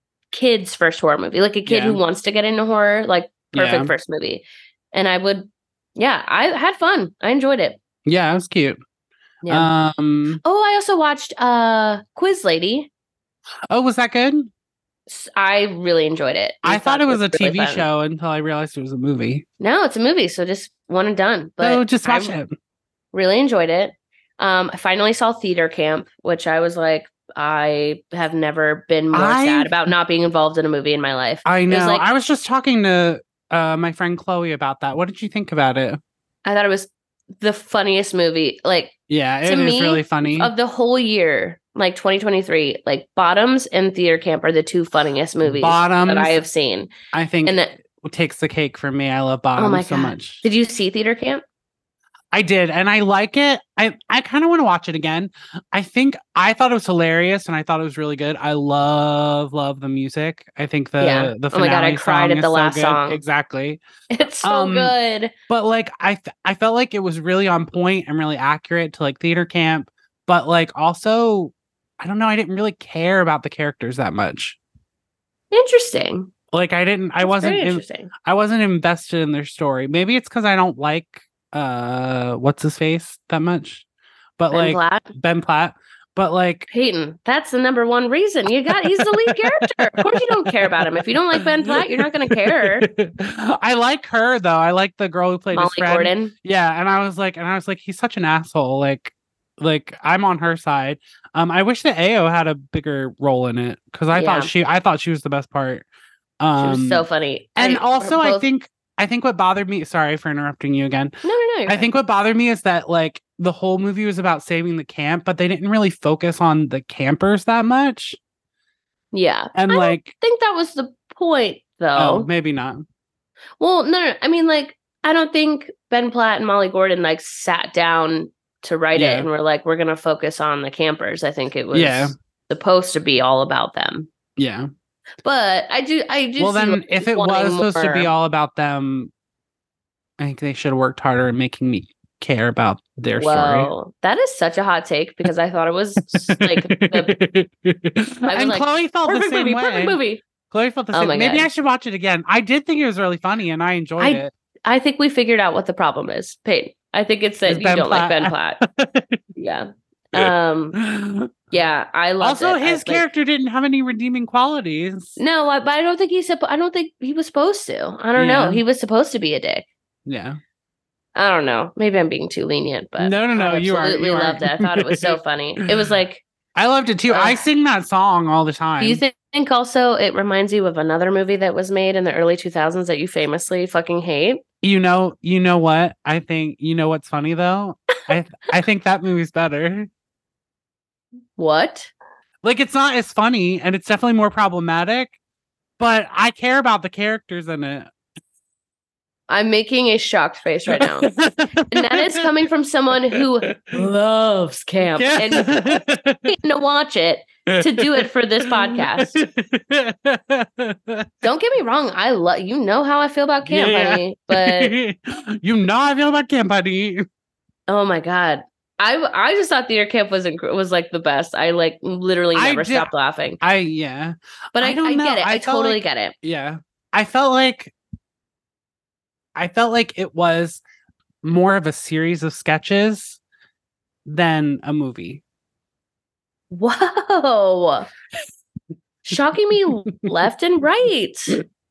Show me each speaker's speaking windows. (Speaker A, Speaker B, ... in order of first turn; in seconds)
Speaker A: 0.3-7.8, 9.4-9.7, 10.4-12.9, 15.1-17.9, 19.6-22.4, 23.1-32.1, 36.4-46.9, 47.5-47.7, 49.6-51.4, 61.0-63.2, 64.1-65.3, 75.5-76.3, 77.2-78.1, 84.5-85.1, 86.7-92.9, 95.5-96.3, 104.1-104.5, 106.6-108.5, 111.2-111.9, 119.1-122.3, 123.6-134.1, 135.2-138.1, 143.2-147.2, 148.2-150.2, 150.9-151.5, 154.0-158.6, 159.3-160.8, 161.5-163.0, 165.2-169.7, 171.1-176.2, 177.1-177.4, 178.8-184.4, 191.4-191.9, 199.3-201.1, 201.7-209.2, 211.2-214.8, 217.7-223.4, 224.6-226.1, 236.5-237.9, 239.0-241.4
Speaker B: 1.6-2.0, 3.5-3.9, 8.0-8.8, 9.5-10.4, 13.7-14.5, 16.6-19.4, 21.6-22.5, 29.1-29.8, 31.4-36.0, 39.1-40.5, 45.4-46.4, 47.1-50.4, 52.3-63.8, 64.4-64.9, 65.5-74.6, 76.5-83.8, 84.4-86.7, 88.6-105.8, 106.4-107.0, 107.6-111.2, 111.7-118.2, 119.5-120.1, 122.0-122.8, 128.9-129.3, 131.7-132.2, 134.4-134.7, 136.4-139.1, 140.2-143.7, 146.1-154.3, 157.4-159.2, 160.1-161.5, 162.2-165.2, 168.1-168.6, 170.1-170.4, 173.0-175.2, 176.5-179.0, 184.6-189.9, 192.4-195.2, 195.8-197.9, 200.7-202.3, 203.1-203.8, 204.9-206.3, 207.5-211.1, 213.4-217.1, 222.3-227.7, 229.3-230.6, 231.2-233.2, 234.1-235.2